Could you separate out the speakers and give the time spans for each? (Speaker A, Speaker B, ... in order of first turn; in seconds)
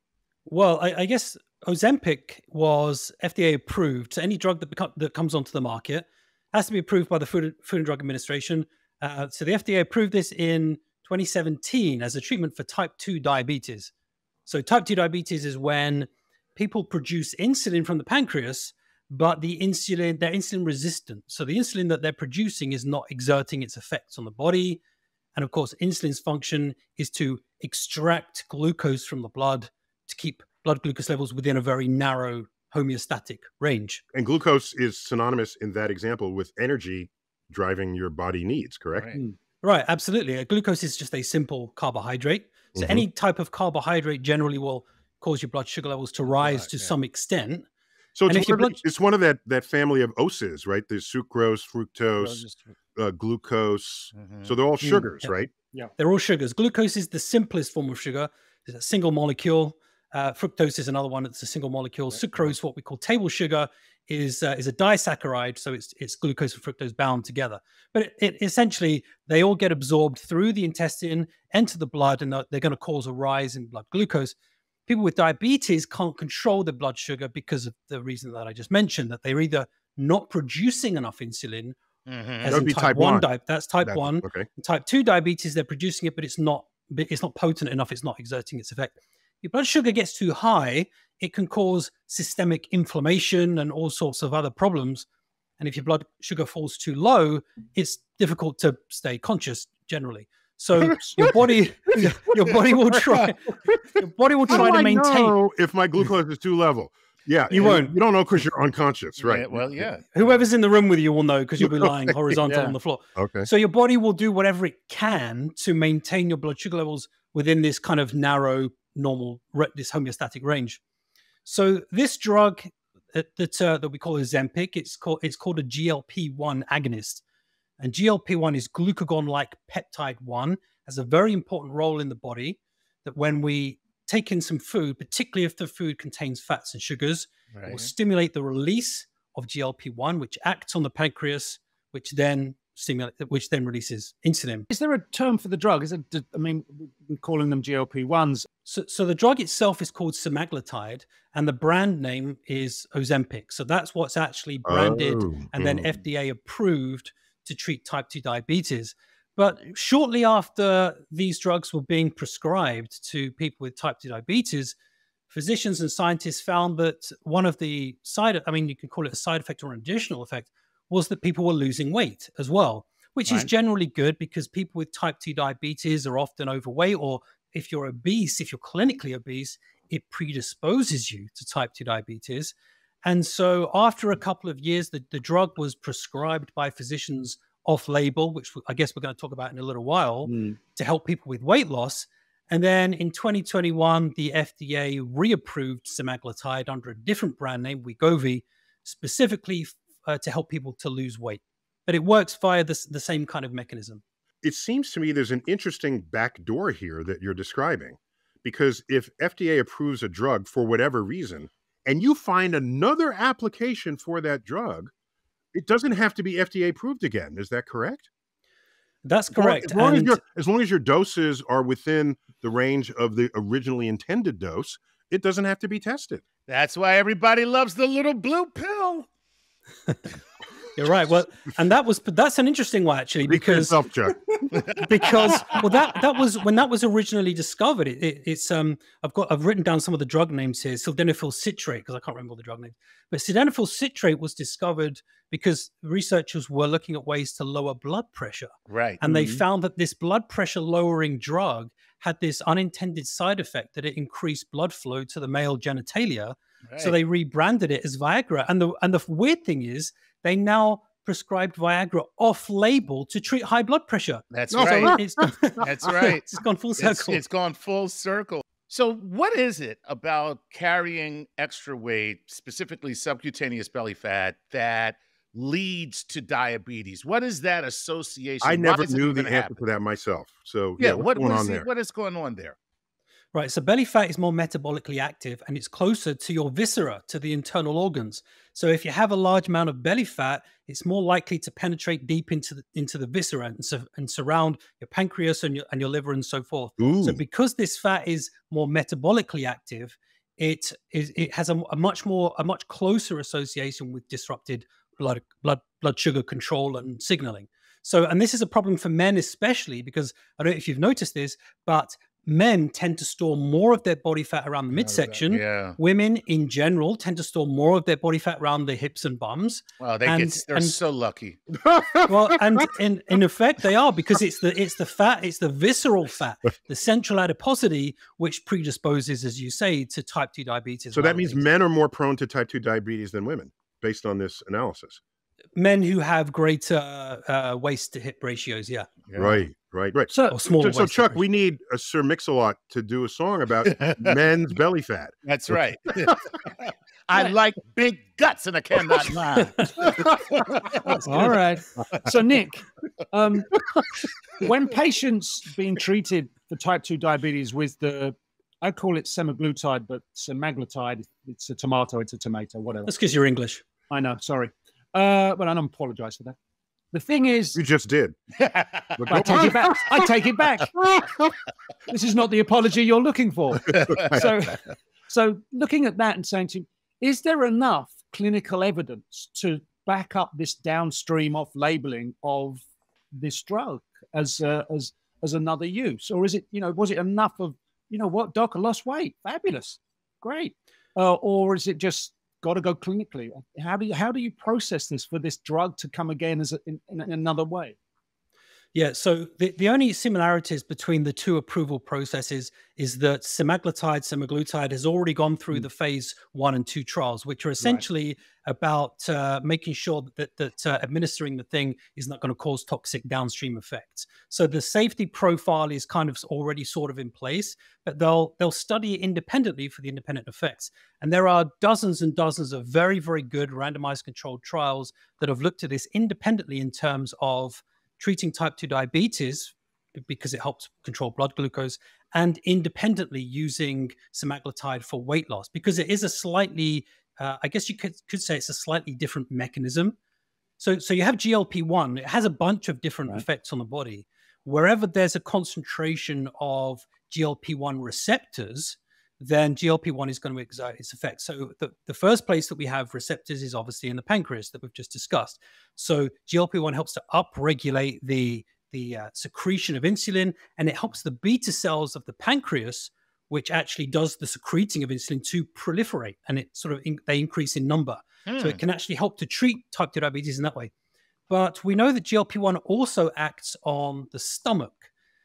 Speaker A: 0.5-13.9, 14.5-24.8, 25.4-34.0, 39.6-47.7, 48.3-48.8, 54.8-55.3, 56.0-74.3, 74.9-81.8, 82.4-95.1, 95.6-105.4, 107.5-108.0, 110.1-120.8, 121.5-127.2, 127.8-144.7, 148.7-164.8, 165.3-204.0, 219.1-220.2, 230.8-233.8, 234.7-267.2, 283.3-320.8, 322.1-331.4, 335.6-338.9, 340.3-341.2, 349.4-349.9, 362.9-363.6, 398.7-440.0, 440.6-470.7, 471.3-474.9
Speaker B: 34.1-39.1, 42.8-43.0, 48.2-52.5, 53.0-55.5, 82.5-83.3, 83.8-84.5, 100.8-102.1, 104.5-109.9, 111.6-112.2, 113.2-113.5, 154.7-155.9, 204.4-214.9, 215.5-218.1, 219.3-226.2, 233.3-234.6, 264.5-265.3, 278.4-281.7, 296.8-297.2, 321.6-322.7, 330.9-335.0, 339.2-345.1, 367.6-368.2, 369.0-370.0, 370.8-371.4
Speaker C: 46.3-47.0, 54.1-54.5, 62.1-62.5, 82.1-82.6, 109.2-110.4, 137.5-137.9, 226.5-229.1, 234.6-235.4, 248.7-249.0, 256.7-257.0, 264.3-265.0, 265.6-279.6, 280.8-282.6, 314.7-315.8, 319.8-321.4, 339.1-339.4, 343.7-344.1, 345.2-351.3, 368.4-369.2, 468.3-468.6
Speaker D: 112.5-112.8, 144.7-148.5, 190.2-190.6, 249.0-249.4, 340.1-340.4, 351.0-353.6, 354.4-362.9, 363.9-366.4, 366.9-367.6, 369.1-370.8, 371.9-397.8, 407.6-407.8